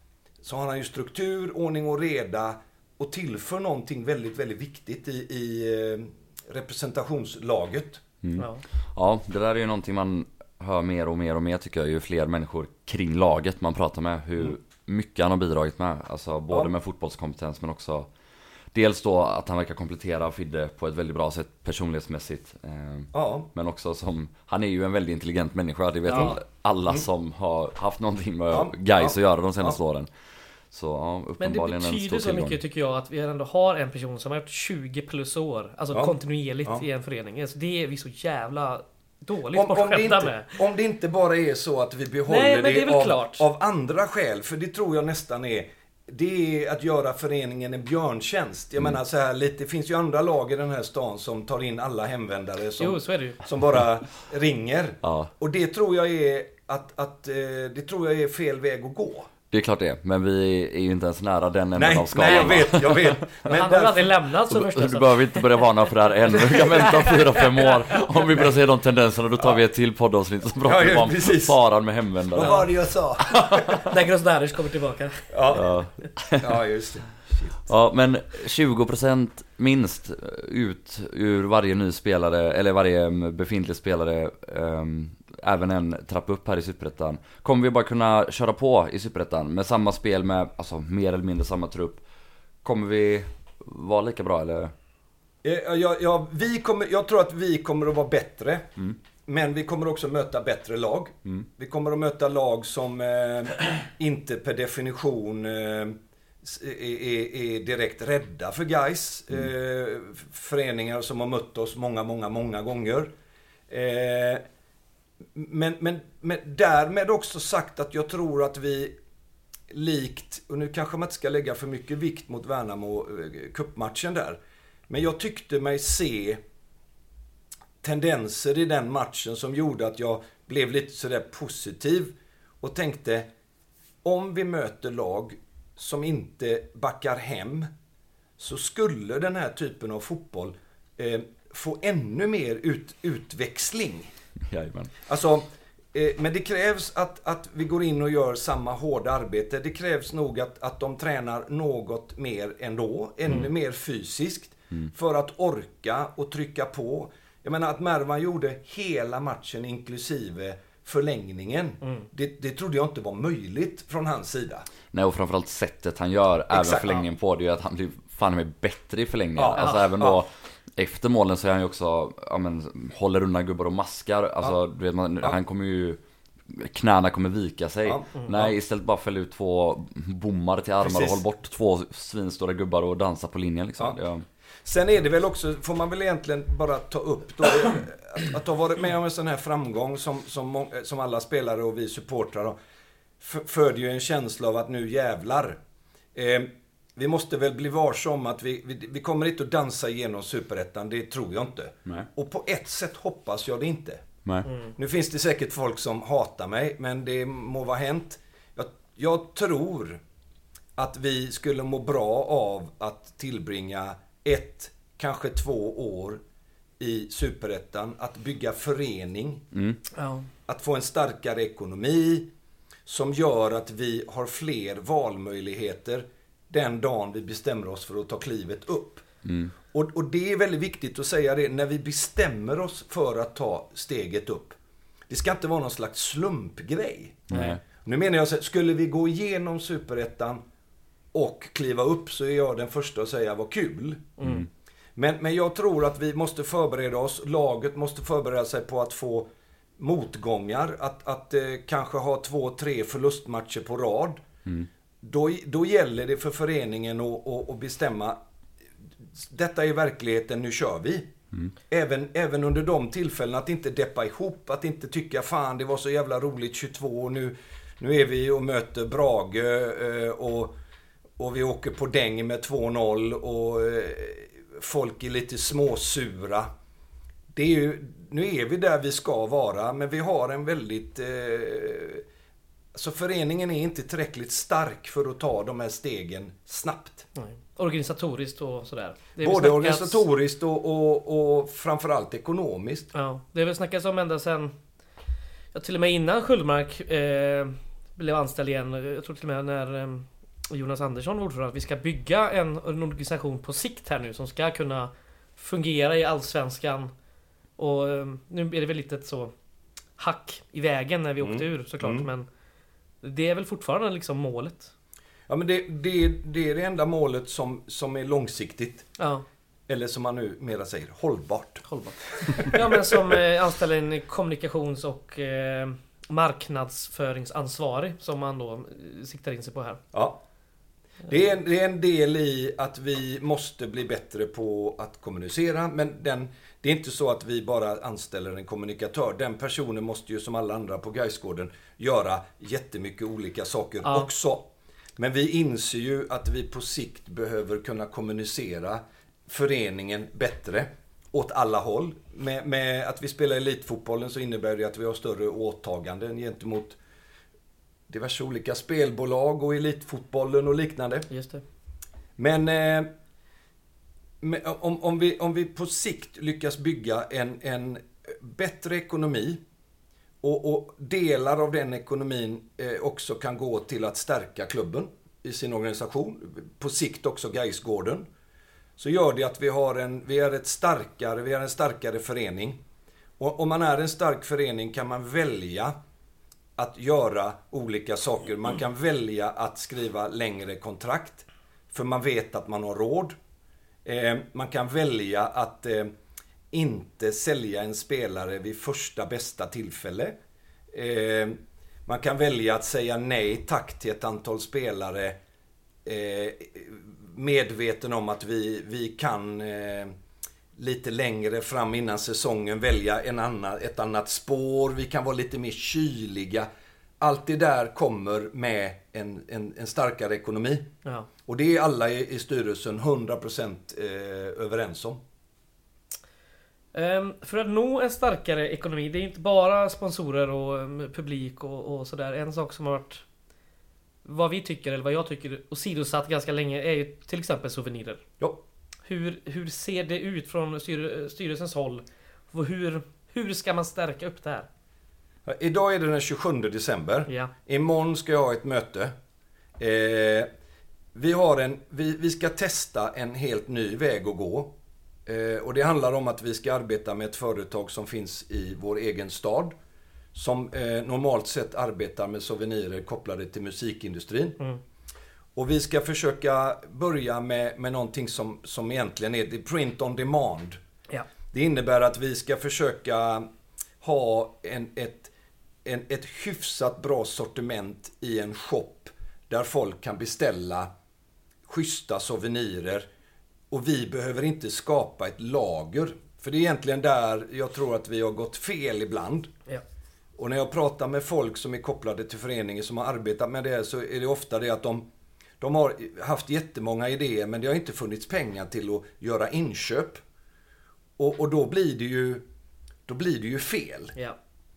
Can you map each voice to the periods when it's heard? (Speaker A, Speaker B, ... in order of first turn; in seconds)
Speaker A: 0.4-8.0, 23.1-23.5, 28.5-29.8, 39.5-59.3, 61.8-64.2, 70.6-71.6, 72.3-73.7, 75.3-75.7, 76.4-77.7, 95.4-98.7, 99.3-113.1, 113.7-114.4, 115.3-118.9, 119.7-126.4, 127.8-133.3, 134.0-137.7, 138.4-144.1, 145.1-164.7, 166.5-167.0, 169.4-170.2, 177.9-178.5, 180.8-181.2, 184.7-192.6, 193.2-195.6, 196.2-204.1, 204.8-210.0, 210.8-216.2, 216.8-219.4, 220.5-222.3, 222.9-229.1, 229.7-234.6, 235.1-240.4, 241.1-244.2, 245.0-254.2, 255.0-258.2, 259.2-261.1, 261.7-270.6, 271.2-276.5, 277.3-282.1, 282.7-287.1, 289.2-292.9, 311.2-312.1, 315.3-318.9, 319.7-323.2, 329.9-330.2, 331.1-356.8, 357.9-361.1, 362.2-362.9, 364.2-369.4, 370.2-378.1, 378.8-382.6, 383.2-385.7, 386.6-393.1, 393.9-395.9, 396.5-400.2, 400.7-405.2, 405.9-410.0, 410.6-416.5, 417.0-420.7, 421.3-425.0, 445.3-448.9, 449.6-450.3, 450.9-454.5, 455.1-459.5, 460.1-464.4, 465.4-470.6, 471.3-473.3, 473.8-475.1, 475.6-480.7, 481.5-482.9, 483.5-489.3, 490.2-494.9, 495.4-500.0, 501.0-502.2, 502.9-504.0
Speaker B: 8.2-18.1, 18.7-30.1, 30.7-32.6, 55.0-55.3, 59.5-63.2, 64.5-72.6, 75.5-76.5, 77.7-92.0, 92.6-94.7, 144.5-144.9, 164.9-184.3, 219.5-219.8, 229.2-229.5, 237.3-237.6, 244.2-244.5
Speaker C: 8.4-8.6, 26.1-26.4, 31.4-40.6, 42.3-43.5, 52.8-53.4, 63.5-65.7, 66.3-68.1, 73.3-75.7, 169.6-169.9, 219.9-220.3, 244.2-244.4, 287.2-290.1, 292.9-294.6, 295.5-306.9, 307.6-309.3, 310.0-312.3, 313.0-314.7, 319.0-319.2, 321.7-329.8, 361.1-361.4, 426.7-433.0, 434.1-438.0, 438.9-444.5